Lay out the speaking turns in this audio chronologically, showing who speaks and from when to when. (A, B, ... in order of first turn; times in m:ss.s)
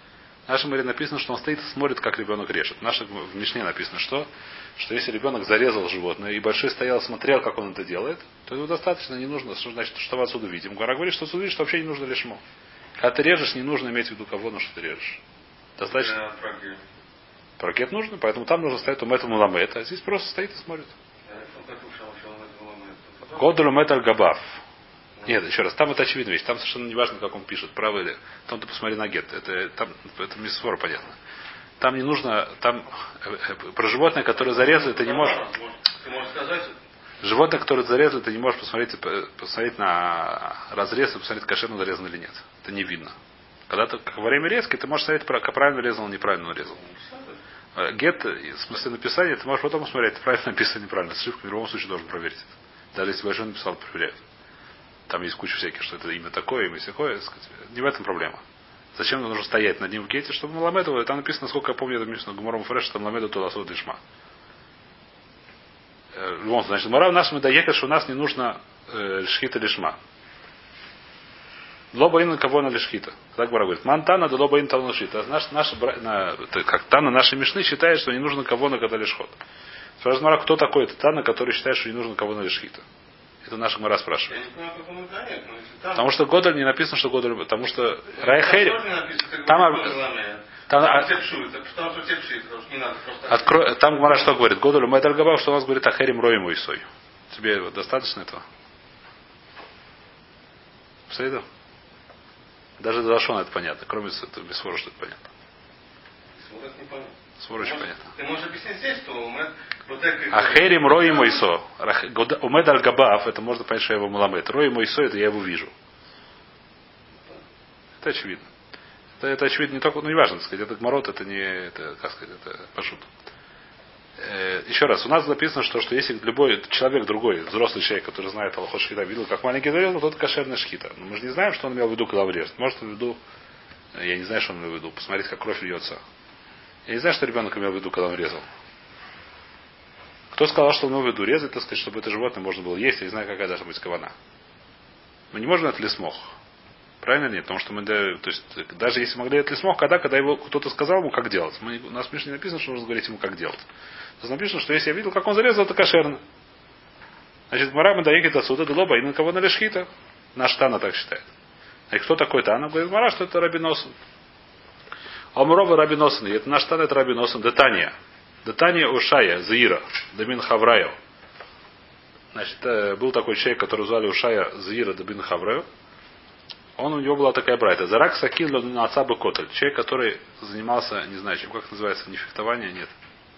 0:00.5-0:12.4 A
0:13.0-0:15.2 A
0:15.8-0:16.2 A
0:15.9-0:16.8 B
0:17.6-0:20.9 A
0:21.3-0:23.6 B
0:23.4-0:24.6 A
0:25.3-0:31.2 A
0:31.8-0:35.4 A
0:34.5-0:36.8 B
0:37.2-0:43.2 A
0:43.7-0:46.8 A
0:46.7-0:47.4 B
0:47.8-0:54.2 A
0:55.1-0:58.4 A
0:58.9-1:04.0 A
1:06.1-1:10.0 A
1:11.9-1:19.4 A
1:20.0-1:22.8 A
1:23.4-1:24.4 A
1:24.3-1:26.1 B
1:25.9-1:28.9 A
1:28.2-1:33.6 B
1:29.4-1:30.0 A
1:30.7-1:31.1 A
1:33.3-1:38.4 A
1:41.1-1:41.4 A
1:42.8-1:45.3 A
1:46.4-1:51.4 B
1:47.4-1:48.0 A
1:50.3-1:55.7 A
1:58.0-1:58.5 A
1:59.2-2:03.1 A
2:04.2-2:13.2 A
2:14.0-2:16.0 A
2:16.9-2:18.5 A
2:20.3-2:24.1 A
2:25.3-2:26.4 A
2:27.0-2:33.6 A
2:34.2-2:36.2 A
2:37.5-2:41.2 A
2:41.9-2:43.9 A
2:45.4-2:47.9 A
2:48.4-2:51.0 A
2:52.3-2:55.7 A
2:56.8-3:02.9 A